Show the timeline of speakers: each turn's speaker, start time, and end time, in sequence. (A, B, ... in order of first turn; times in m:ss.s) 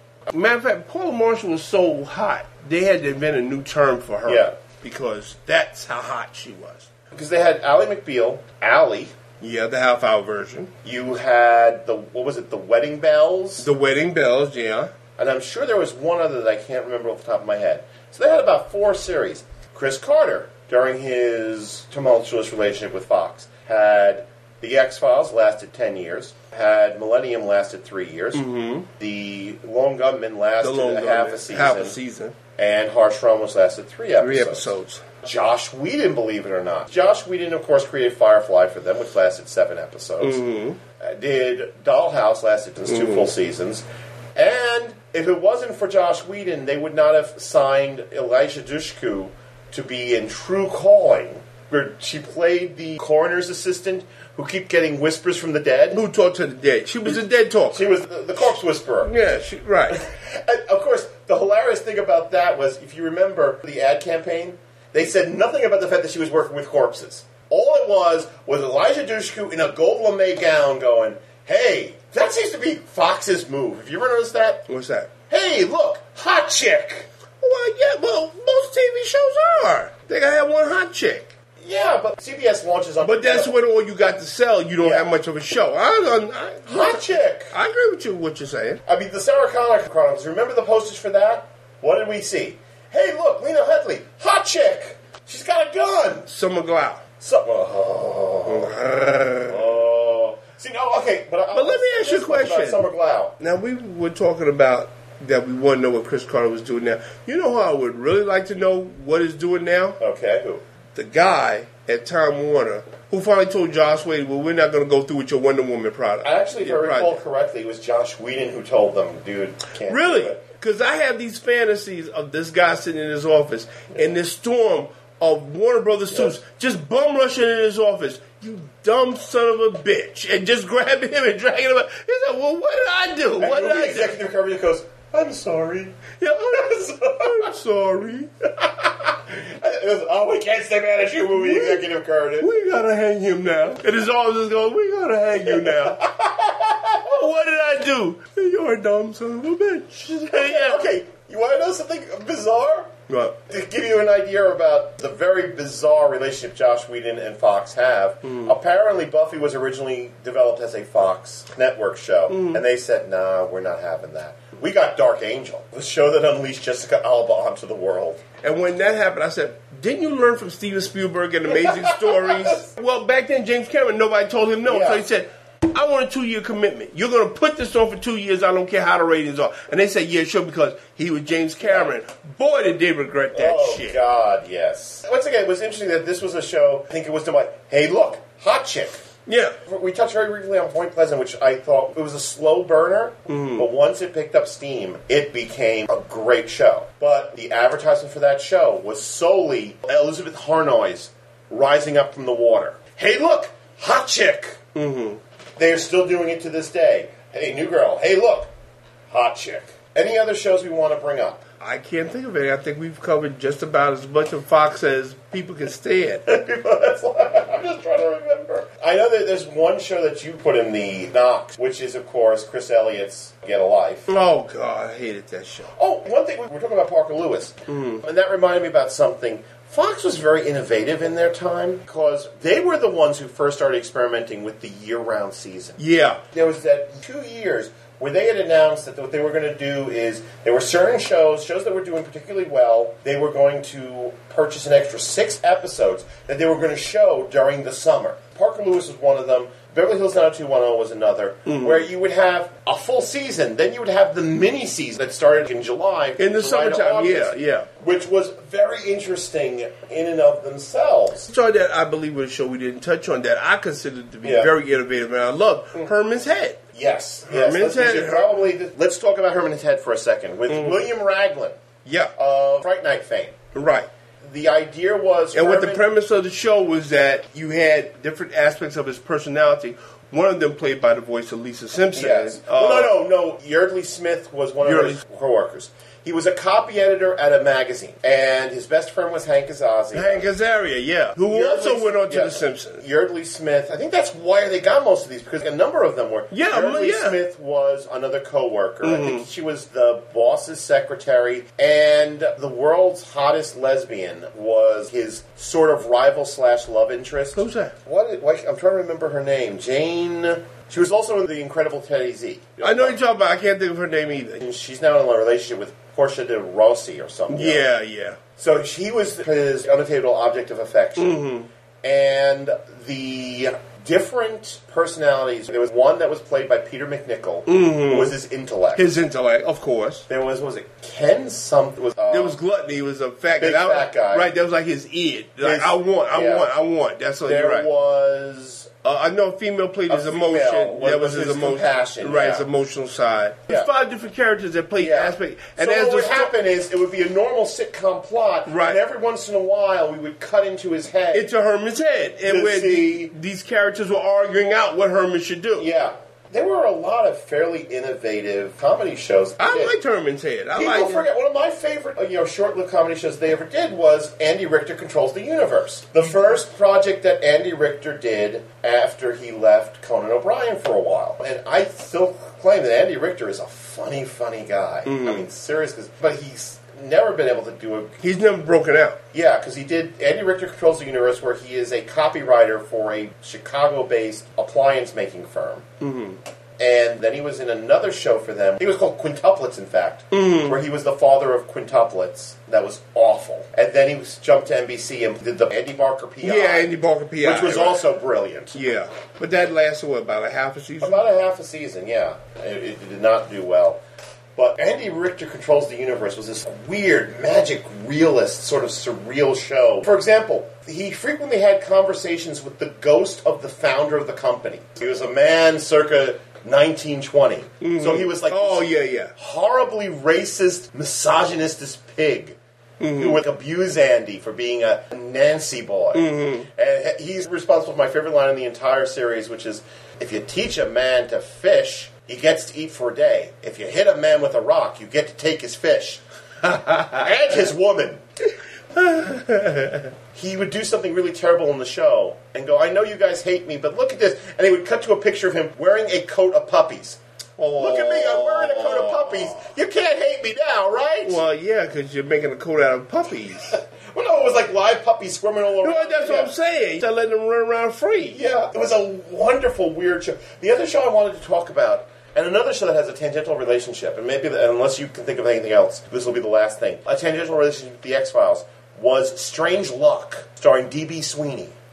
0:00.3-0:06.9 A
0:04.2-0:04.5 B
0:07.1-0:09.1 B
0:09.4-0:10.7 A
0:10.8-0:13.7 B
0:13.6-0:14.9 A
0:15.2-0:32.0 B
0:28.3-0:28.9 A
0:30.6-0:32.3 A
0:32.6-0:34.7 B
0:34.2-0:35.0 A
0:35.2-0:40.4 B
0:40.2-0:40.8 A
0:41.0-0:56.0 B
0:42.9-0:43.3 A
0:55.9-0:57.9 A
0:57.7-0:59.1 B
0:59.0-1:00.0 A
0:59.9-1:14.6 B
1:14.7-1:15.1 A
1:15.3-1:17.1 B
1:17.4-1:21.3 A
1:21.6-1:23.5 B
1:23.0-1:28.8 A
1:24.8-1:25.1 B
1:26.7-1:27.5 B
1:28.8-1:36.3 B
1:36.3-1:37.0 A
1:37.2-1:38.8 B
1:38.5-1:39.7 A
1:39.4-1:43.3 B
1:41.5-1:42.8 A
1:43.4-1:50.0 A
1:50.0-1:50.6 B
1:50.9-1:57.2 A
1:56.2-2:00.4 B
1:59.8-2:14.2 A
2:06.1-2:06.3 B
2:13.4-2:16.0 B
2:16.2-2:18.3 A
2:16.5-2:17.5 B
2:18.6-2:22.5 B
2:21.3-2:21.8 A
2:22.4-2:26.0 A
2:25.4-2:27.1 B
2:27.0-2:30.8 A
2:30.3-2:32.9 B
2:33.1-2:33.4 A
2:33.5-2:48.2 B
2:38.2-2:38.5 A
2:42.3-2:42.6 A
2:48.4-3:04.0 A
2:51.6-2:52.6 B
2:54.6-2:55.0 B
3:01.6-3:01.9 B
3:03.3-3:09.0 B
3:09.3-3:09.5 A
3:09.6-3:24.6 B
3:13.3-3:13.6 A
3:24.7-3:25.2 A
3:25.6-3:28.5 B
3:29.1-3:31.4 B
3:31.6-3:36.2 A
3:36.2-3:44.1 B
3:44.1-3:45.7 A
3:45.8-3:55.8 B
3:47.7-3:48.0 A
3:55.8-3:56.2 A
3:56.3-4:21.3 B
4:11.4-4:11.8 A
4:16.2-4:17.7 A
4:21.3-4:26.6 A
4:24.2-4:24.5 B
4:26.7-4:31.6 B
4:27.3-4:28.4 A
4:30.5-4:30.8 A
4:31.8-4:32.1 A
4:32.2-4:33.4 B
4:33.5-4:33.9 A
4:34.2-4:35.8 B
4:35.3-4:42.9 A
4:41.9-4:50.3 B
4:44.6-4:45.0 A
4:49.9-4:52.8 A
4:51.2-5:13.0 B
4:56.3-4:57.2 A
4:58.8-4:59.3 A
5:07.4-5:07.7 A
5:12.6-5:14.4 A
5:14.4-5:17.6 B
5:17.3-5:18.2 A
5:18.4-5:21.2 B
5:21.0-5:21.5 A
5:21.8-5:28.9 B
5:27.5-5:28.2 A
5:28.8-5:30.0 A
5:30.1-5:32.4 B
5:32.1-5:37.7 A
5:33.4-5:34.3 B
5:35.4-5:36.5 B
5:37.2-5:38.7 B
5:38.8-5:46.3 A
5:39.9-5:42.4 B
5:44.8-5:51.3 B
5:48.4-5:48.8 A
5:51.1-5:55.6 A
5:52.2-5:53.1 B
5:55.6-5:59.7 B
5:59.4-6:01.0 A
6:00.5-6:18.0 B
6:14.8-6:15.2 A
6:18.0-6:19.0 A
6:19.1-6:25.6 B
6:25.8-6:26.2 A
6:26.6-6:36.7 B
6:30.1-6:30.6 A
6:36.2-6:37.8 A
6:37.2-6:38.6 B
6:38.5-6:41.0 A
6:40.8-6:43.8 B
6:44.4-7:02.4 B
6:57.6-6:59.1 A
7:02.8-7:03.2 A
7:03.0-7:16.0 B
7:05.9-7:06.5 A
7:16.9-7:18.0 B
7:18.8-7:19.9 A
7:20.1-7:27.0 B
7:27.4-7:29.4 A
7:27.6-7:31.2 B
7:31.0-7:33.5 A
7:33.5-7:36.3 B
7:35.6-7:38.2 A
7:38.1-7:51.5 B